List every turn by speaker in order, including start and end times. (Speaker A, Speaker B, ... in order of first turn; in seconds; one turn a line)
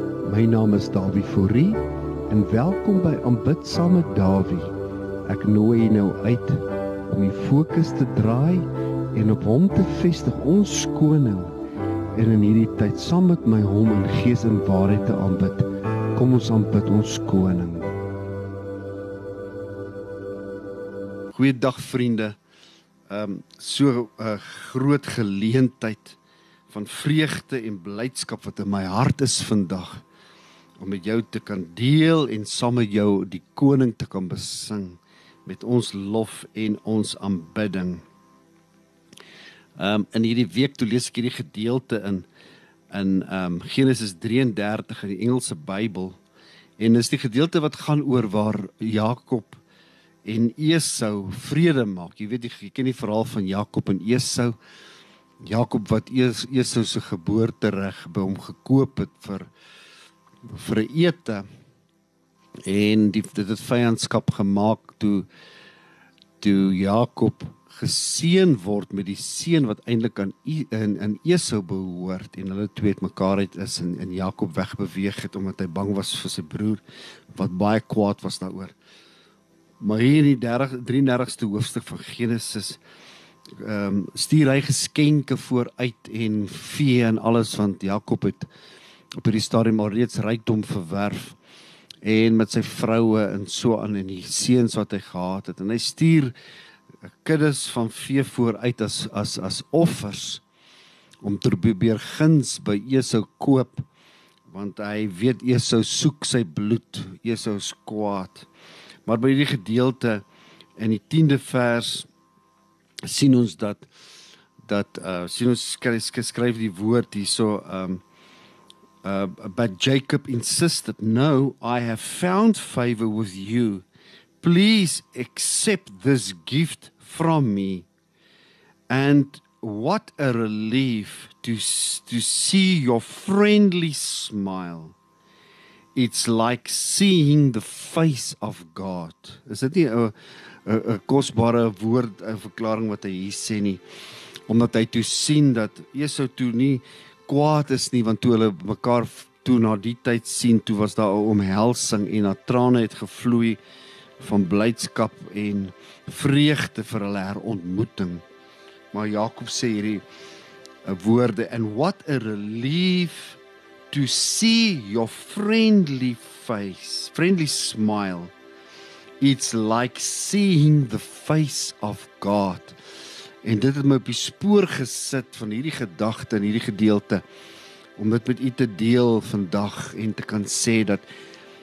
Speaker A: 0.2-4.7
Speaker A: 5.3-11.5
Speaker A: 12.1-17.9
Speaker A: 21.3-22.4
Speaker A: 23.1-26.2
Speaker A: 26.7-30.0
Speaker A: 30.8-38.0
Speaker A: 39.8-42.3
Speaker A: 42.9-46.2
Speaker A: 46.8-49.6
Speaker A: 50.2-54.5
Speaker A: 55.4-59.5
Speaker A: 60.5-61.5
Speaker A: 62.6-65.3
Speaker A: 66.4-76.8
Speaker A: 77.3-78.7
Speaker A: 79.8-82.8
Speaker A: 83.6-88.5
Speaker A: 89.2-91.4
Speaker A: 92.0-96.3
Speaker A: 97.2-100.4
Speaker A: 101.2-103.8
Speaker A: 104.5-108.5
Speaker A: 109.0-110.2
Speaker A: 110.8-112.1
Speaker A: 113.1-113.9
Speaker A: 114.7-118.0
Speaker A: 119.0-123.8
Speaker A: 124.4-127.9
Speaker A: 128.9-134.9
Speaker A: 135.9-140.1
Speaker A: 140.7-143.8
Speaker A: 144.5-153.6
Speaker A: 154.2-158.2
Speaker A: 158.9-160.0
Speaker A: 160.8-163.4
Speaker A: 163.9-168.3
Speaker A: 169.2-172.8
Speaker A: 173.4-177.2
Speaker A: 178.0-181.1